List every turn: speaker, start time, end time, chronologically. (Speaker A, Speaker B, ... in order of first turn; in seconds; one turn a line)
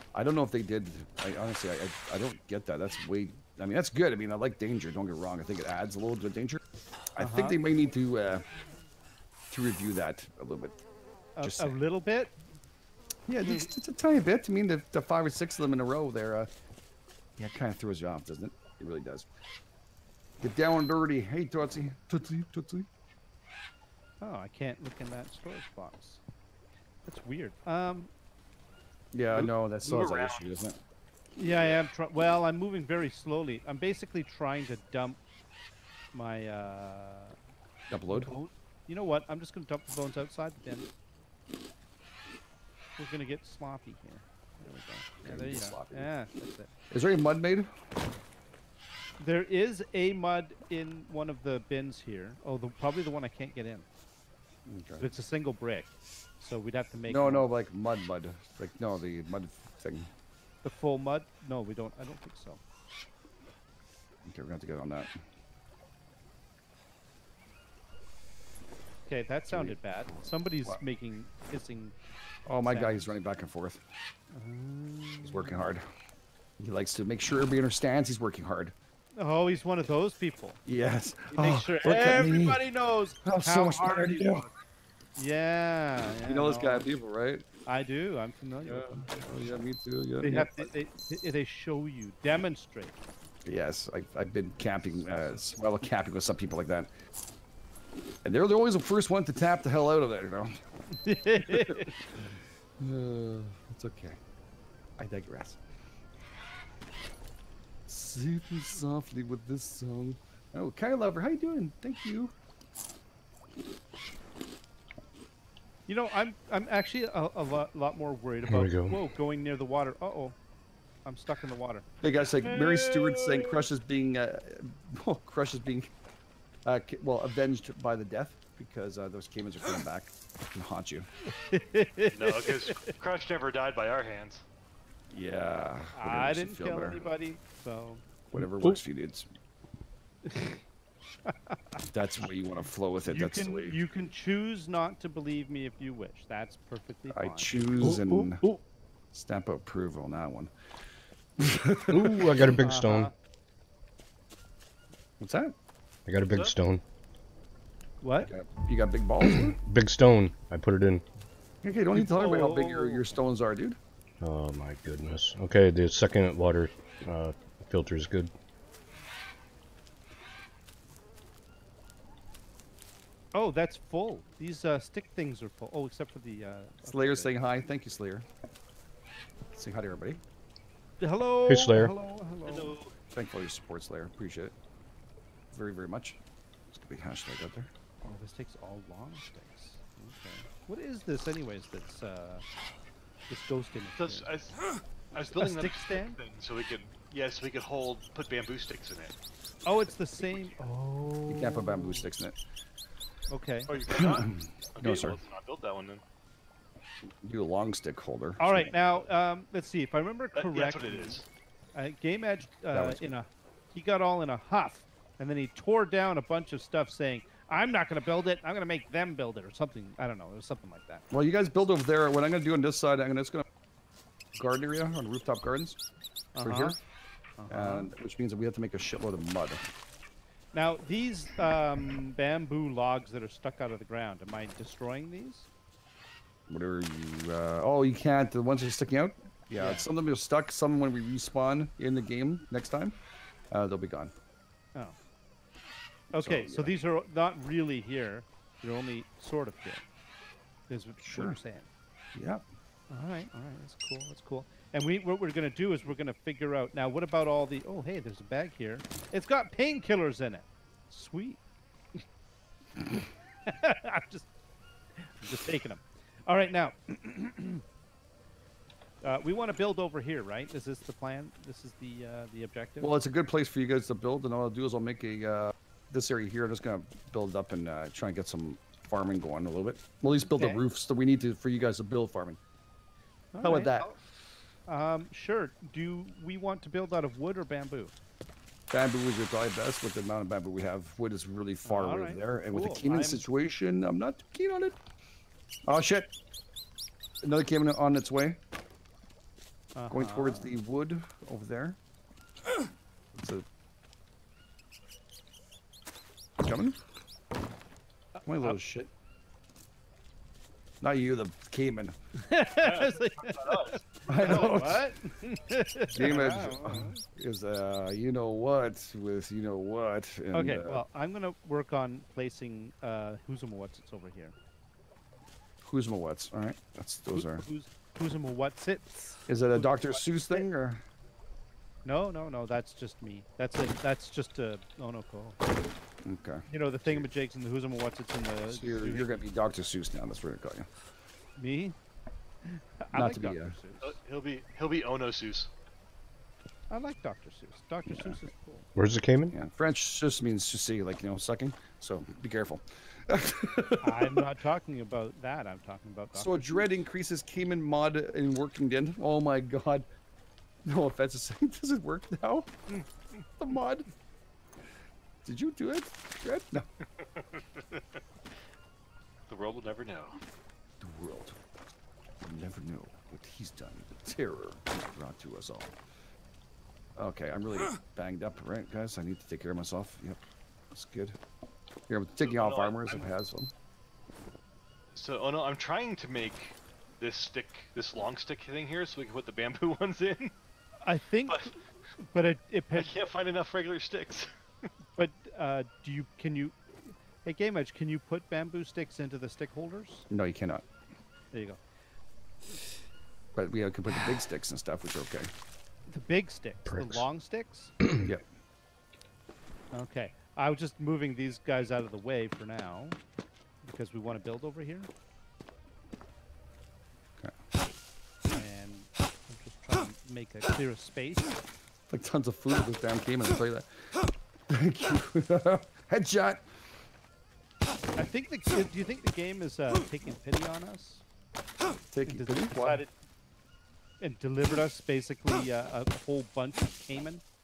Speaker A: 0.1-6.6
Speaker A: 7.2-8.4
Speaker B: 7.2-7.6
Speaker A: 9.5-10.8
Speaker B: 11.4-12.3
Speaker A: 11.4-11.8
Speaker A: 13.3-16.5
Speaker A: 17.4-19.2
Speaker A: 20.4-22.9
Speaker B: 24.2-26.2
Speaker B: 27.1-28.1
Speaker A: 29.1-30.8
Speaker C: 29.3-30.5
Speaker B: 31.4-35.2
Speaker B: 36.1-37.4
Speaker A: 37.9-38.3
Speaker B: 38.1-40.9
Speaker B: 43.0-46.7
Speaker A: 45.2-46.1
Speaker A: 46.9-47.7
Speaker B: 49.2-53.9
Speaker A: 54.6-55.1
Speaker B: 55.0-57.5
Speaker A: 57.1-60.1
Speaker B: 60.6-62.6
Speaker A: 64.2-65.1
Speaker B: 69.1-71.9
Speaker A: 69.5-70.8
Speaker A: 72.5-73.8
Speaker B: 72.6-73.1
Speaker B: 74.3-75.7
Speaker A: 75.2-75.8
Speaker A: 76.6-78.7
Speaker B: 79.2-80.6
Speaker A: 80.7-82.6
Speaker B: 81.3-84.5
Speaker A: 83.2-84.5
Speaker B: 85.2-86.9
Speaker A: 86.3-87.4
Speaker B: 87.7-89.1
Speaker A: 88.6-90.7
Speaker B: 90.2-93.0
Speaker A: 93.5-96.9
Speaker B: 95.1-95.4
Speaker A: 98.2-100.5
Speaker B: 100.9-101.9
Speaker A: 101.5-101.9
Speaker A: 102.8-104.2
Speaker A: 105.0-105.6
Speaker A: 107.9-112.3
Speaker B: 115.9-120.3
Speaker D: 118.5-119.0
Speaker B: 121.0-121.8
Speaker A: 122.0-125.9
Speaker B: 122.4-123.6
Speaker A: 126.6-131.1
Speaker B: 131.3-132.9
Speaker C: 132.1-134.4
Speaker A: 135.1-137.0
Speaker B: 135.9-138.0
Speaker A: 138.3-139.3
Speaker D: 138.3-138.8
Speaker B: 140.2-140.6
Speaker B: 141.3-141.8
Speaker A: 141.9-143.8
Speaker B: 143.1-147.6
Speaker A: 147.1-148.4
Speaker D: 147.8-148.6
Speaker A: 149.1-150.5
Speaker A: 151.4-152.5
Speaker D: 151.9-153.1
Speaker B: 152.6-153.1
Speaker A: 155.2-155.5
Speaker D: 156.1-156.8
Speaker B: 158.0-158.3
Speaker A: 158.2-159.6
Speaker D: 159.2-161.0
Speaker A: 161.6-163.8
Speaker B: 161.9-163.2
Speaker D: 164.2-168.3
Speaker B: 173.3-177.4
Speaker A: 176.8-178.3
Speaker A: 179.5-180.2
Speaker B: 181.0-182.8
Speaker D: 181.5-181.9
Speaker C: 182.4-182.9
Speaker A: 183.1-184.5
Speaker A: 185.5-186.2
Speaker A: 186.7-187.7
Speaker B: 188.0-192.4
Speaker B: 193.3-194.3
Speaker C: 194.0-194.6
Speaker C: 195.1-199.1
Speaker B: 195.3-196.2
Speaker B: 199.6-202.1
Speaker A: 201.3-202.4
Speaker B: 203.3-203.7
Speaker C: 203.7-206.0
Speaker A: 203.9-205.2
Speaker A: 207.2-208.7
Speaker B: 208.4-211.2
Speaker C: 210.3-211.2
Speaker B: 211.7-221.0
Speaker A: 212.7-213.1
Speaker A: 221.1-223.4
Speaker A: 224.3-225.8
Speaker B: 226.3-226.8
Speaker A: 226.4-226.8
Speaker B: 227.4-227.9
Speaker A: 227.5-229.6
Speaker B: 230.5-235.5
Speaker A: 236.5-243.0
Speaker B: 239.6-239.8
Speaker A: 243.5-244.1
Speaker B: 246.1-249.8
Speaker A: 246.2-246.7
Speaker B: 250.7-251.7
Speaker A: 251.0-251.4
Speaker A: 252.1-252.4
Speaker B: 252.9-261.4
Speaker B: 263.4-264.3
Speaker B: 265.0-267.6
Speaker B: 269.0-272.9
Speaker A: 272.8-282.4
Speaker B: 280.3-280.6
Speaker B: 283.3-284.0
Speaker A: 283.4-283.9
Speaker B: 284.7-287.9
Speaker A: 288.7-294.8
Speaker B: 291.6-293.2
Speaker A: 295.6-296.1
Speaker A: 297.2-298.4
Speaker B: 299.7-300.5
Speaker A: 299.9-301.8
Speaker A: 303.1-303.4
Speaker A: 306.4-306.8
Speaker B: 308.1-308.6
Speaker A: 308.2-308.9
Speaker A: 310.8-311.9
Speaker B: 312.2-317.0
Speaker C: 312.6-313.8
Speaker A: 314.1-314.9
Speaker A: 315.9-320.8
Speaker B: 320.3-324.3
Speaker A: 325.6-327.4
Speaker B: 327.1-330.4
Speaker A: 329.3-330.8
Speaker B: 331.8-335.4
Speaker A: 336.0-337.1
Speaker B: 336.5-339.2
Speaker A: 338.5-340.7
Speaker B: 341.4-341.8
Speaker B: 342.4-343.9
Speaker A: 342.9-343.6
Speaker C: 343.8-345.5
Speaker B: 346.7-348.7
Speaker A: 347.9-348.2
Speaker D: 348.7-349.4
Speaker A: 349.3-354.2
Speaker B: 353.8-356.6
Speaker A: 356.1-359.8
Speaker A: 360.6-362.5
Speaker A: 363.4-363.9
Speaker A: 365.2-366.6
Speaker C: 367.0-368.0
Speaker C: 369.3-370.2
Speaker A: 370.8-371.4
Speaker A: 372.2-375.7
Speaker A: 377.0-381.2
Speaker A: 381.9-383.5
Speaker C: 382.2-383.1
Speaker C: 384.9-390.3
Speaker B: 390.8-392.9
Speaker C: 391.3-391.5
Speaker C: 392.7-394.6
Speaker B: 395.0-396.6
Speaker B: 397.2-400.1
Speaker A: 400.1-400.6
Speaker B: 401.3-401.6
Speaker A: 403.3-405.3
Speaker B: 405.9-407.7
Speaker D: 406.6-407.0
Speaker D: 407.8-408.1
Speaker B: 409.7-413.0
Speaker B: 413.6-414.9
Speaker B: 418.3-421.3
Speaker A: 421.9-423.8
Speaker A: 424.5-426.4
Speaker B: 428.0-431.0
Speaker A: 431.9-432.8
Speaker B: 432.1-432.9
Speaker B: 434.0-437.2